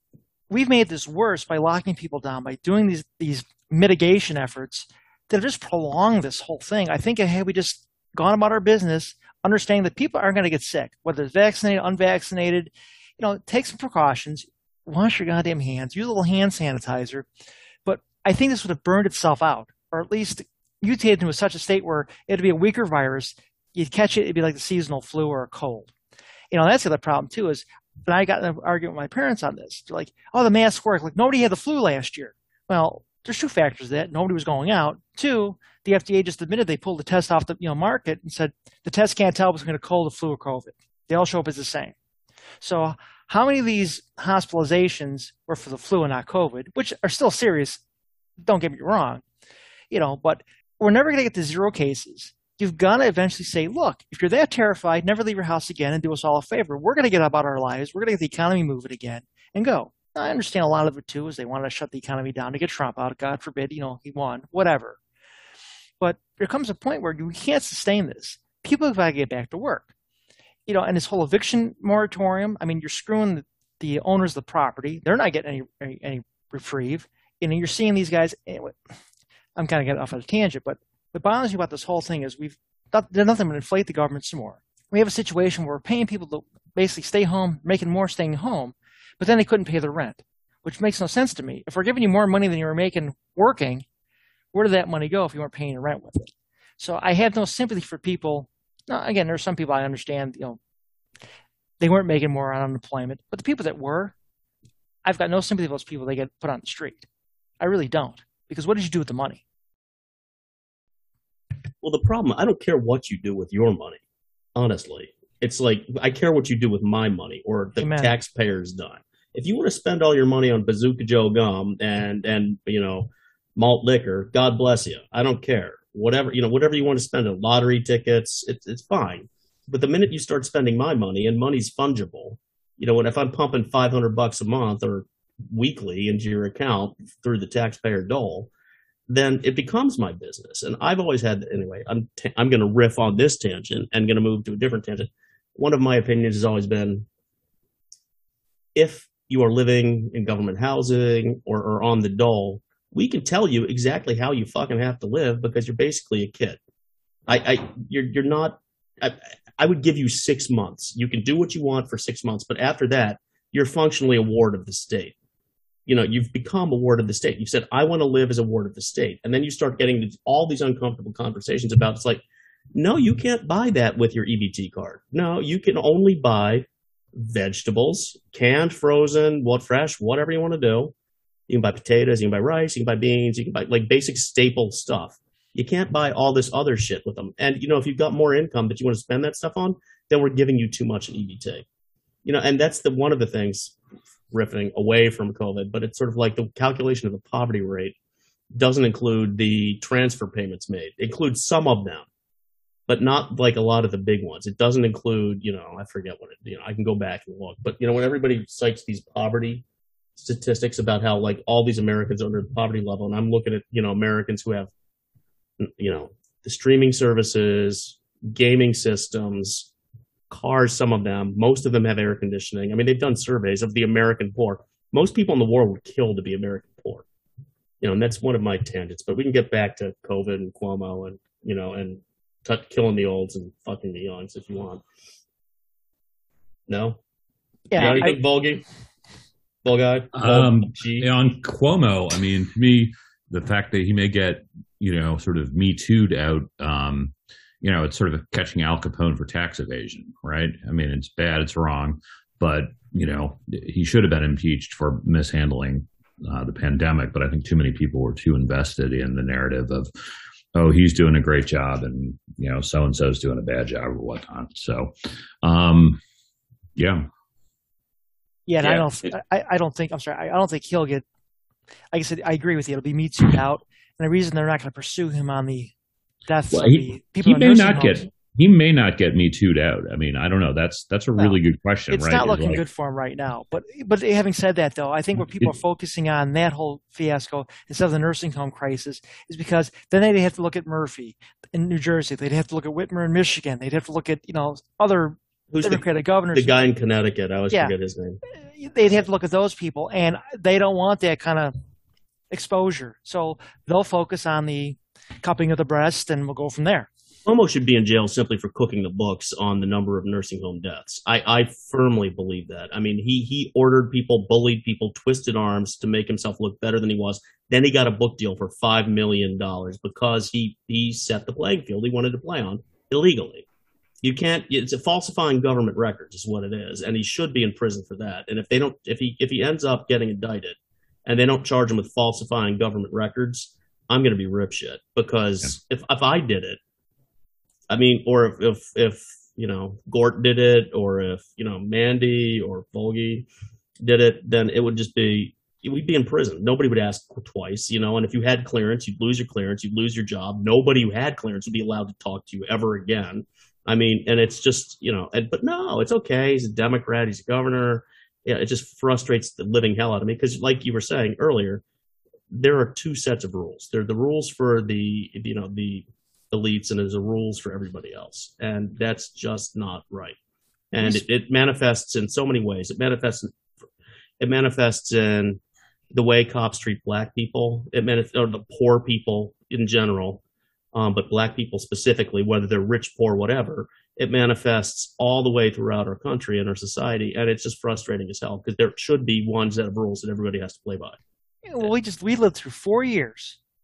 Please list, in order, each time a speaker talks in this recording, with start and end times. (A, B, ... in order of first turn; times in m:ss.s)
0:00.5-0:17.3 A
0:17.8-0:25.9 A
0:26.5-0:41.9 A
0:42.6-0:47.8 A
0:48.4-0:49.2 A
0:49.9-1:05.0 A
1:06.0-1:09.9 A
1:10.7-1:18.8 A
1:19.6-1:33.8 A
1:34.5-1:40.6 A
1:41.8-1:44.1 A
1:45.0-1:47.0 A
1:47.6-1:49.4 A
1:51.8-1:54.0 B
1:54.5-2:18.5 B
1:57.8-1:58.1 A
2:19.1-2:27.0 B
2:28.7-2:36.6 B
2:37.3-2:45.1 B
2:45.9-2:52.2 B
2:52.7-3:00.9 B
3:01.5-3:11.6 B
3:12.2-3:13.8 B
3:14.3-3:17.9 B
3:18.5-3:22.0 B
3:22.9-3:29.6 B
3:30.2-3:34.7 B
3:35.6-3:39.7 B
3:40.3-3:47.0 B
3:47.8-3:54.8 B
3:56.7-3:57.0 B
3:57.7-3:58.2 A
3:57.7-3:58.6 B
3:59.6-4:01.1 B
4:00.1-4:19.9 C
4:20.5-4:26.0 C
4:26.8-4:27.0 C
4:28.5-4:31.0 A
4:31.9-4:35.7 A
4:36.3-4:38.0 A
4:36.5-4:42.6 C
4:41.9-4:56.7 A
4:45.2-4:45.5 C
4:55.5-4:58.2 B
4:58.3-5:01.5 A
5:02.3-5:06.9 A
5:07.2-5:23.4 B
5:24.0-5:36.6 B
5:37.7-5:43.2 B
5:43.8-6:01.6 B
6:02.3-6:10.2 B
6:10.7-6:13.3 B
6:14.2-6:15.4 B
6:15.9-6:20.2 B
6:20.7-6:31.0 B
6:31.4-6:33.4 A